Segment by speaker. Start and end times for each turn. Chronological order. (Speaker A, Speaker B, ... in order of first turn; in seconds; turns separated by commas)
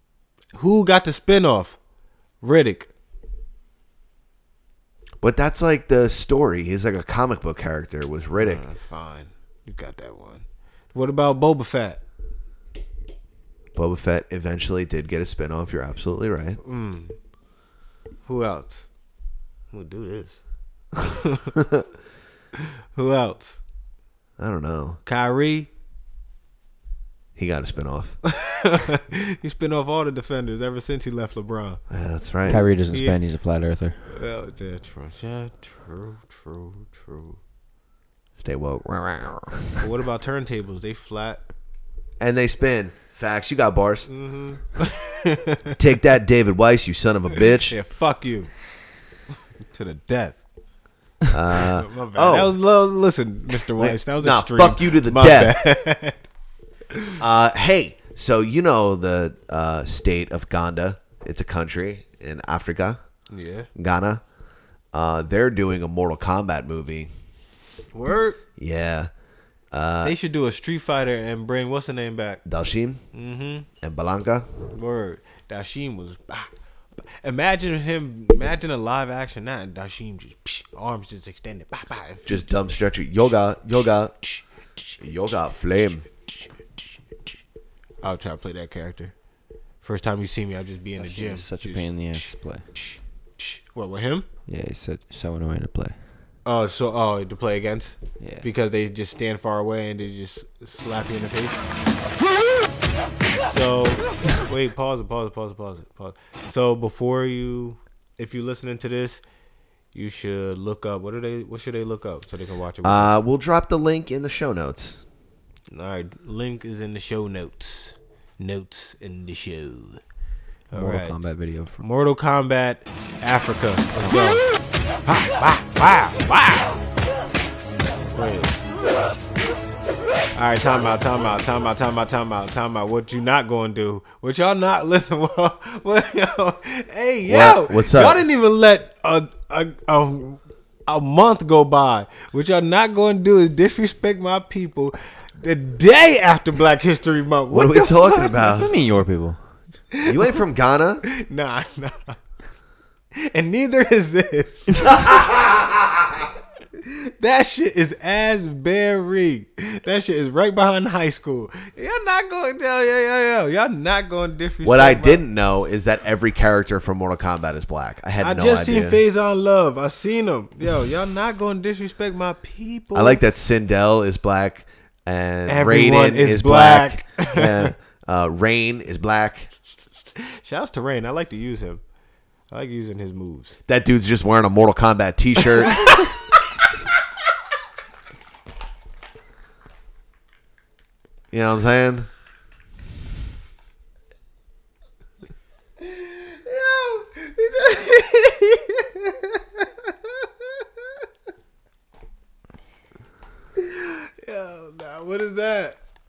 Speaker A: 0.6-1.8, Speaker A: 2.4-2.9, Speaker B: 5.2-8.6, Speaker A: 8.4-12.0, Speaker B: 13.7-16.6, Speaker A: 16.6-17.1, Speaker A: 18.2-18.9, Speaker A: 19.7-20.4, Speaker A: 21.0-21.5, Speaker B: 21.6-21.8, Speaker A: 22.9-23.6, Speaker B: 24.4-25.0, Speaker A: 25.1-25.7, Speaker B: 27.4-28.2, Speaker A: 28.2-31.8, Speaker B: 31.9-32.6, Speaker C: 32.5-34.0, Speaker A: 32.5-33.2, Speaker A: 34.1-37.4, Speaker B: 38.4-39.8, Speaker A: 39.8-41.4, Speaker B: 42.2-44.1, Speaker A: 44.1-45.8, Speaker B: 45.8-47.8, Speaker A: 47.7-48.5, Speaker A: 49.7-50.4, Speaker B: 51.3-52.5, Speaker A: 51.5-56.2, Speaker B: 53.7-55.6, Speaker B: 57.2-63.0, Speaker A: 63.3-63.7, Speaker B: 63.7-64.2, Speaker B: 64.9-67.1, Speaker A: 67.9-68.4, Speaker B: 68.6-69.1, Speaker B: 69.7-70.2, Speaker A: 70.0-72.4, Speaker B: 72.4-73.0, Speaker A: 73.1-73.7, Speaker B: 73.8-74.5, Speaker A: 74.7-76.5, Speaker A: 77.2-82.4, Speaker B: 82.2-84.1, Speaker B: 85.0-86.1, Speaker A: 88.0-89.1, Speaker A: 89.8-94.2, Speaker C: 91.0-92.6, Speaker C: 94.5-96.0, Speaker A: 96.4-101.6, Speaker C: 98.2-98.5, Speaker A: 103.4-109.2, Speaker A: 109.9-113.2, Speaker B: 112.8-115.0, Speaker A: 115.7-120.0, Speaker A: 120.7-121.2, Speaker C: 120.7-121.9, Speaker A: 121.8-124.4, Speaker A: 125.0-126.8, Speaker A: 128.1-128.5, Speaker A: 130.3-148.7, Speaker B: 137.2-138.2, Speaker B: 147.5-148.7, Speaker C: 148.4-149.4, Speaker A: 149.9-150.3, Speaker B: 150.1-151.0, Speaker A: 151.0-152.2, Speaker A: 153.1-155.5, Speaker B: 154.9-155.8, Speaker A: 156.8-165.2, Speaker B: 164.6-169.0, Speaker A: 168.2-173.2, Speaker B: 172.9-179.5, Speaker A: 175.5-177.7, Speaker A: 180.2-181.8, Speaker A: 182.5-183.6, Speaker B: 183.7-186.1, Speaker B: 191.3-192.1, Speaker A: 195.8-200.3, Speaker A: 203.6-205.8